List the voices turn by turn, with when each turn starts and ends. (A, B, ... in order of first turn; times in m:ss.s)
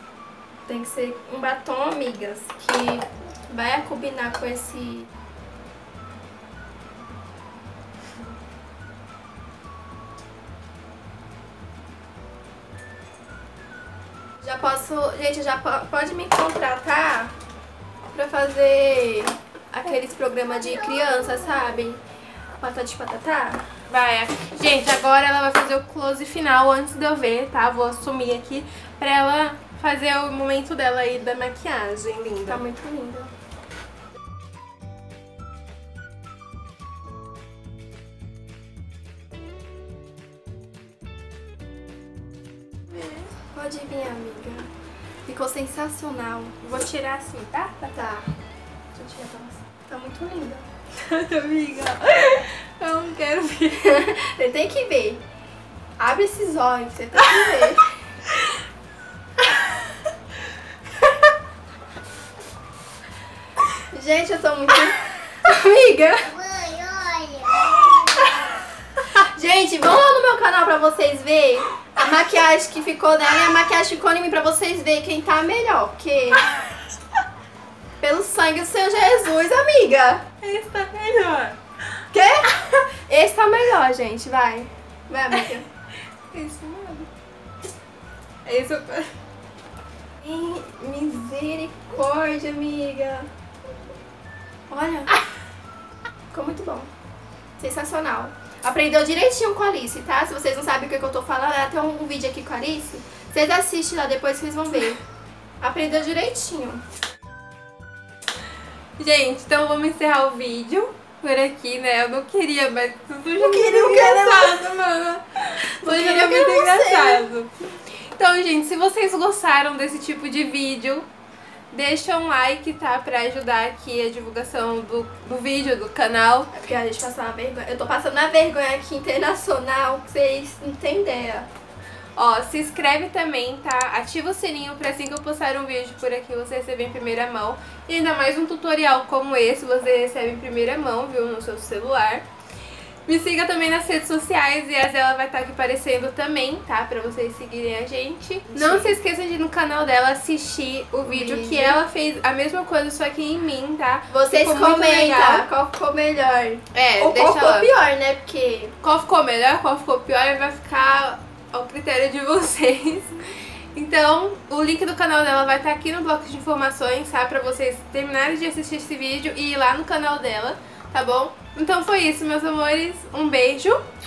0:00.7-0:05.1 A
0:14.4-0:17.3 A
0:18.1-0:22.0 A
0:22.6-0:23.6 A
0:23.9-0:32.6 B
0:32.5-0:33.3 A
0:43.5-0:44.7 A
0:45.3-0:46.6 A
0:46.6-0:48.1 B
0:47.9-0:48.3 A
0:48.9-0:50.7 A
0:50.9-0:53.9 B
0:53.7-0:55.2 A
0:56.0-0:58.0 A
0:59.6-0:59.9 B
1:03.9-1:06.4 A
1:06.4-1:08.5 C
1:09.3-1:16.5 A
1:18.0-1:20.3 A
1:20.4-1:21.6 B
1:22.1-1:25.7 A
1:26.3-1:27.1 B
1:28.4-1:29.1 B
1:30.2-1:33.3 A
1:34.7-1:35.2 A
1:36.3-1:36.9 A
1:37.6-1:45.0 A
1:45.6-1:46.8 A
1:49.0-2:01.1 B
1:53.3-1:54.8 A
1:55.6-1:57.3 A
2:01.7-2:06.5 B
2:06.5-2:11.5 A
2:12.2-2:22.3 B
2:23.1-2:35.5 B
2:28.5-2:29.0 A
2:31.0-2:31.8 A
2:34.1-2:38.8 A
2:36.7-2:37.7 B
2:38.8-2:53.8 B